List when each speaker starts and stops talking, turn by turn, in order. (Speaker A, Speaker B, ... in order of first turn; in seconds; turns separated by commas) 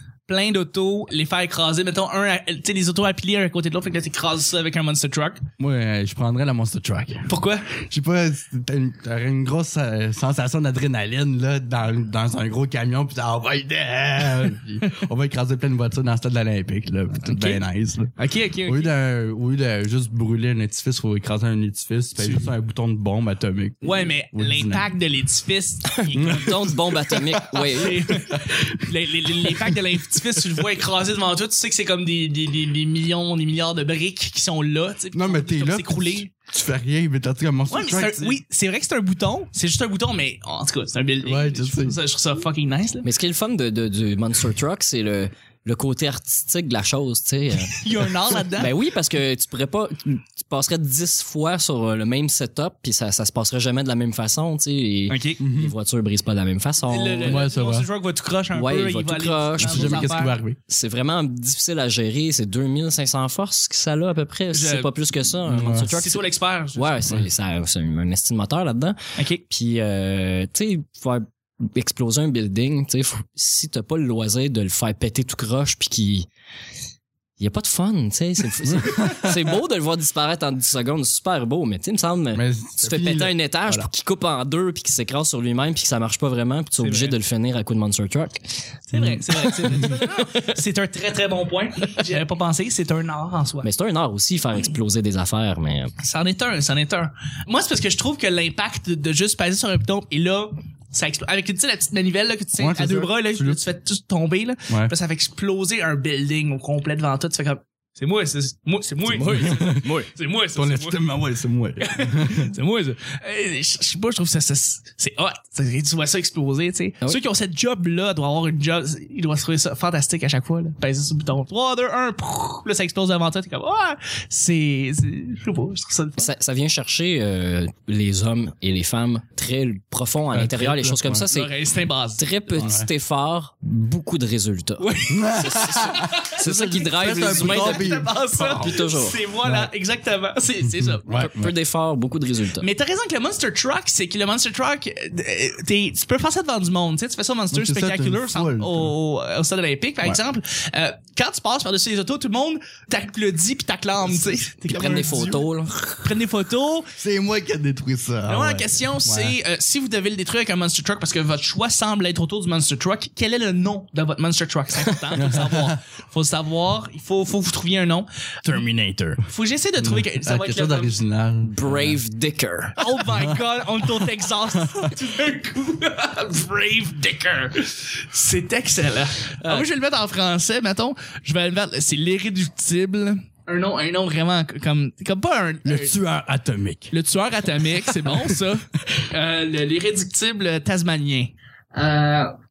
Speaker A: 0.3-5.4, Speaker B: 5.6-18.1, Speaker A: 7.3-7.7, Speaker A: 17.2-17.6, Speaker A: 18.2-18.9, Speaker B: 18.6-24.9, Speaker A: 22.2-22.5, Speaker A: 23.8-26.6, Speaker C: 26.0-28.0, Speaker B: 26.1-26.8, Speaker B: 27.3-30.6, Speaker A: 27.6-36.3, Speaker B: 35.1-38.4, Speaker A: 37.7-43.0, Speaker B: 41.2-42.0, Speaker C: 43.0-47.8, Speaker A: 47.6-48.7, Speaker C: 48.5-57.4, Speaker A: 55.1-55.4, Speaker B: 55.4-55.7, Speaker A: 56.9-60.3, Speaker B: 57.2-57.9, Speaker C: 58.5-66.2, Speaker B: 59.6-60.6, Speaker A: 64.5-64.9, Speaker B: 65.5-65.9, Speaker A: 65.9-67.1, Speaker C: 66.7-76.3, Speaker A: 69.2-69.4, Speaker C: 77.4-88.6, Speaker B: 78.6-79.5, Speaker B: 82.3-83.9, Speaker A: 86.8-87.2, Speaker A: 88.9-93.7, Speaker C: 89.2-90.5, Speaker C: 93.6-95.9, Speaker A: 96.0-111.0, Speaker B: 102.5-103.6, Speaker B: 104.7-104.9, Speaker C: 109.0-110.1, Speaker B: 109.5-109.8, Speaker B: 110.5-112.5, Speaker A: 111.8-126.2, Speaker C: 126.2-131.5, Speaker B: 130.3-131.3, Speaker A: 131.2-132.2, Speaker C: 132.2-139.2, Speaker B: 132.6-132.9, Speaker A: 134.8-136.4, Speaker B: 135.1-138.8, Speaker A: 137.0-141.1, Speaker B: 139.4-139.7, Speaker B: 140.7-141.5, Speaker C: 141.1-142.7, Speaker A: 142.6-155.5, Speaker B: 147.5-148.9, Speaker C: 154.7-156.1, Speaker A: 156.0-156.9, Speaker B: 157.0-159.4, Speaker A: 158.3-168.1, Speaker B: 165.2-165.8, Speaker B: 168.4-169.2, Speaker A: 169.2-171.0, Speaker B: 169.8-172.0, Speaker C: 171.4-172.8, Speaker A: 172.8-185.9, Speaker B: 173.1-173.4, Speaker B: 174.6-174.9, Speaker C: 179.4-179.7, Speaker B: 185.6-186.9, Speaker A: 186.9-192.3, Speaker B: 187.9-188.3